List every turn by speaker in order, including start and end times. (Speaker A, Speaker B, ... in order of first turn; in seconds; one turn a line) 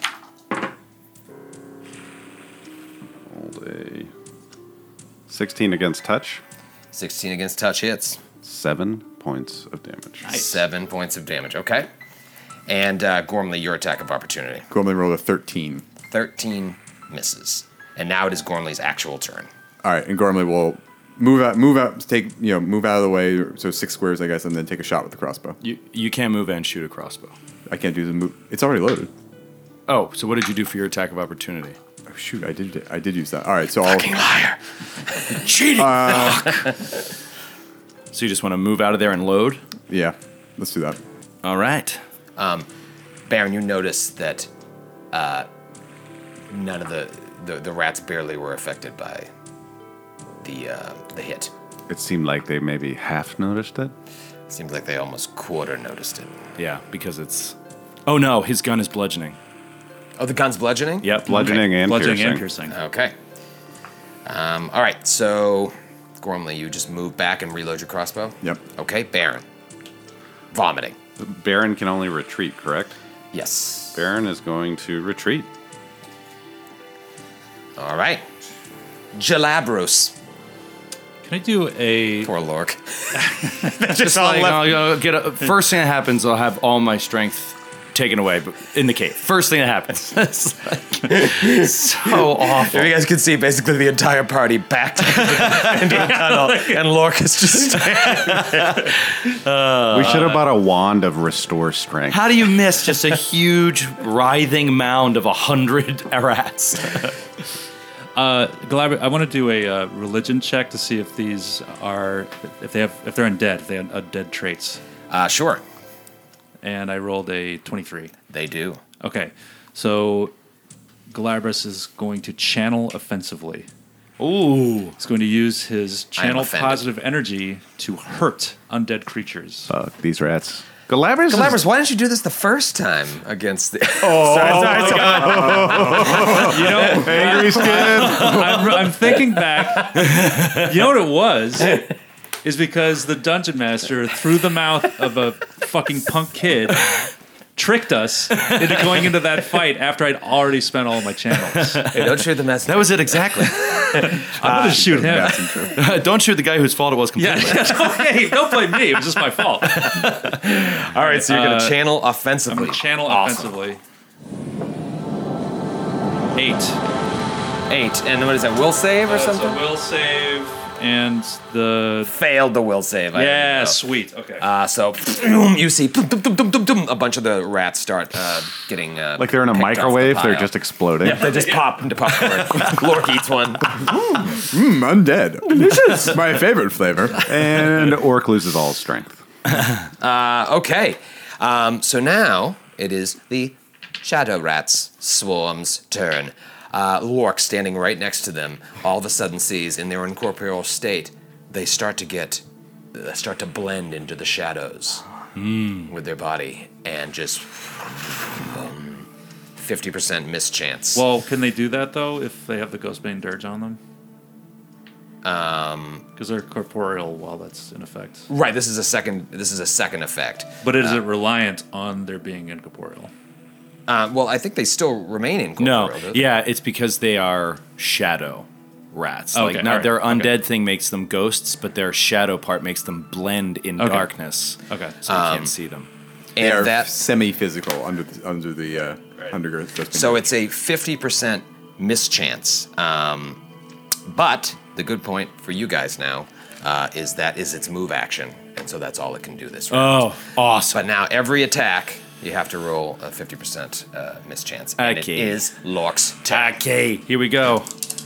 Speaker A: 3.3-4.1
Speaker A: 5.3-6.4
Speaker B: 6.9-8.2
Speaker A: 8.4-10.3
Speaker C: 10.2-10.6
Speaker B: 10.3-11.9
Speaker B: 12.7-14.7
Speaker D: 14.7-15.8
Speaker B: 16.1-19.5
Speaker D: 19.8-25.6
Speaker E: 25.6-27.3
Speaker D: 27.7-29.1
Speaker E: 29.9-31.8
Speaker D: 32.1-34.1
Speaker B: 33.9-34.6
Speaker B: 35.1-36.8
Speaker D: 35.7-36.6
Speaker E: 36.0-36.4
Speaker E: 38.1-39.6
Speaker D: 39.9-41.0
Speaker E: 41.4-42.0
Speaker B: 42.4-42.7
Speaker B: 43.3-44.5
Speaker B: 45.1-45.5
Speaker B: 46.5-49.3
Speaker B: 50.4-51.5
Speaker A: 51.9-53.9
Speaker B: 54.5-56.3
Speaker E: 56.6-57.5
Speaker E: 58.0-59.4
Speaker B: 60.2-61.2
Speaker E: 61.0-61.6
Speaker A: 61.2-62.5
Speaker C: 61.3-62.8
Speaker B: 62.7-63.1
Speaker B: 64.2-69.4
Speaker B: 70.5-71.0
Speaker A: 71.2-72.9
Speaker B: 73.3-74.0
Speaker A: 73.9-75.5
Speaker B: 77.8-78.2
Speaker B: 79.1-80.2
Speaker C: 81.2-82.3
Speaker B: 82.2-84.9
Speaker C: 83.4-83.7
Speaker E: 83.8-92.9
Speaker B: 91.1-98.9
Speaker E: 95.3-96.2
Speaker E: 97.7-100.4
Speaker A: 99.9-102.2
Speaker C: 100.0-100.4
Speaker E: 102.1-107.2
Speaker C: 108.2-114.8
Speaker B: 115.1-115.6
Speaker C: 116.6-118.1
Speaker B: 118.3-118.8
Speaker C: 119.0-120.3
Speaker C: 121.1-123.7
Speaker E: 124.2-125.0
Speaker C: 125.0-129.7
Speaker B: 126.2-126.8
Speaker A: 129.7-131.6
Speaker B: 131.3-137.4
Speaker A: 134.0-138.6
Speaker E: 134.4-134.9
Speaker C: 134.5-141.8
Speaker E: 138.0-138.4
Speaker E: 140.0-140.6
Speaker C: 142.4-147.0
Speaker C: 147.6-151.8
Speaker E: 151.6-153.8
Speaker B: 151.9-155.2
Speaker C: 153.7-155.7
Speaker D: 154.4-155.9
Speaker E: 155.8-158.0
Speaker C: 157.2-160.1
Speaker E: 159.6-160.4
Speaker B: 160.1-163.5
Speaker C: 160.9-161.8
Speaker C: 162.5-163.8
Speaker C: 166.3-166.8
Speaker B: 167.7-169.6
Speaker C: 169.1-172.1
Speaker B: 172.1-173.8
Speaker C: 173.1-174.4
Speaker B: 174.4-184.3
Speaker A: 179.2-181.3
Speaker C: 181.0-181.7
Speaker D: 183.9-187.3
Speaker B: 185.6-186.0
Speaker A: 187.2-189.2
Speaker B: 190.0-202.4
Speaker B: 202.9-205.0
Speaker E: 205.3-205.9
Speaker B: 205.9-211.0
Speaker C: 210.9-213.8
Speaker B: 215.2-216.0
Speaker C: 216.2-218.3
Speaker B: 218.3-221.0
Speaker C: 220.6-223.1
Speaker B: 223.9-226.2
Speaker E: 225.6-235.9
Speaker C: 229.3-230.4
Speaker C: 233.8-234.1
Speaker C: 234.7-235.0
Speaker B: 235.1-235.5
Speaker B: 236.3-236.9
Speaker D: 236.4-240.3
Speaker B: 239.9-243.4
Speaker B: 244.1-250.1
Speaker E: 249.7-250.9
Speaker B: 250.7-256.6
Speaker E: 254.8-255.5
Speaker E: 256.3-257.7